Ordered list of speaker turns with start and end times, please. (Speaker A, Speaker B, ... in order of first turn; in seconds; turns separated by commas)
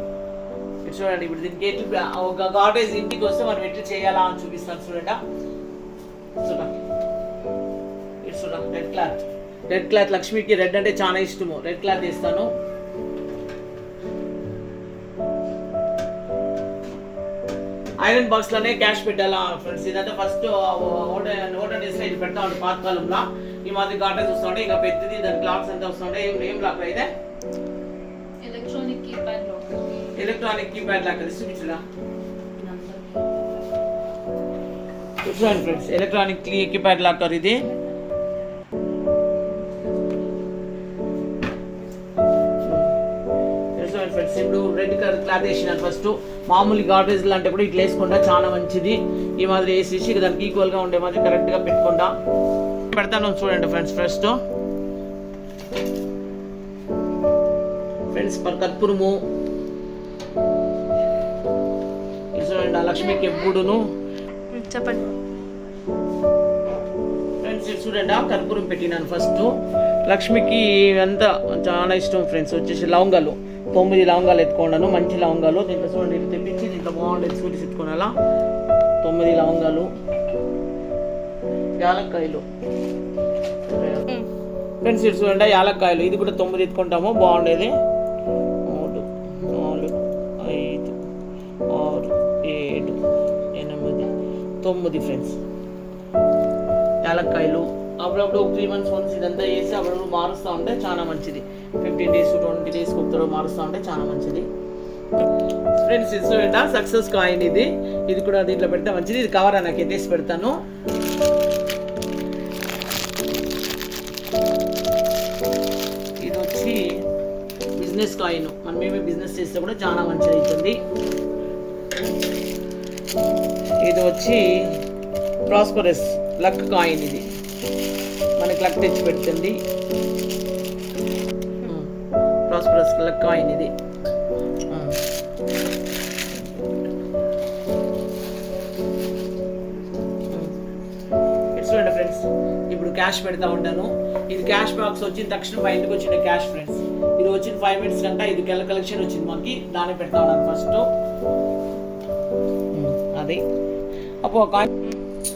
Speaker A: 0.8-5.2, Speaker A: 6.4-6.8, Speaker A: 8.2-12.5, Speaker A: 18.0-27.1, Speaker B: 28.4-29.8, Speaker A: 30.2-31.8, Speaker B: 32.6-33.2, Speaker A: 35.2-37.7, Speaker A: 42.6-42.9, Speaker A: 43.8-52.1, Speaker A: 52.9-54.4, Speaker A: 58.1-59.2, Speaker A: 62.4-63.9, Speaker B: 64.5-65.2, Speaker A: 67.4-69.5, Speaker A: 70.1-78.1, Speaker A: 79.0-79.9, Speaker A: 81.8-82.5, Speaker A: 83.7-84.1, Speaker A: 84.8-87.8, Speaker A: 88.7-91.0, Speaker A: 91.7-93.0, Speaker A: 93.6-94.1, Speaker A: 94.6-95.4, Speaker A: 97.0-104.5, Speaker A: 105.8-110.6, Speaker A: 116.2-117.0, Speaker A: 117.8-120.8, Speaker A: 123.8-124.8, Speaker A: 125.5-127.3, Speaker A: 128.4-129.6, Speaker A: 131.6-131.9, Speaker A: 132.5-133.7, Speaker A: 134.7-135.0, Speaker A: 141.5-150.9, Speaker A: 152.7-153.4, Speaker A: 154.2-154.7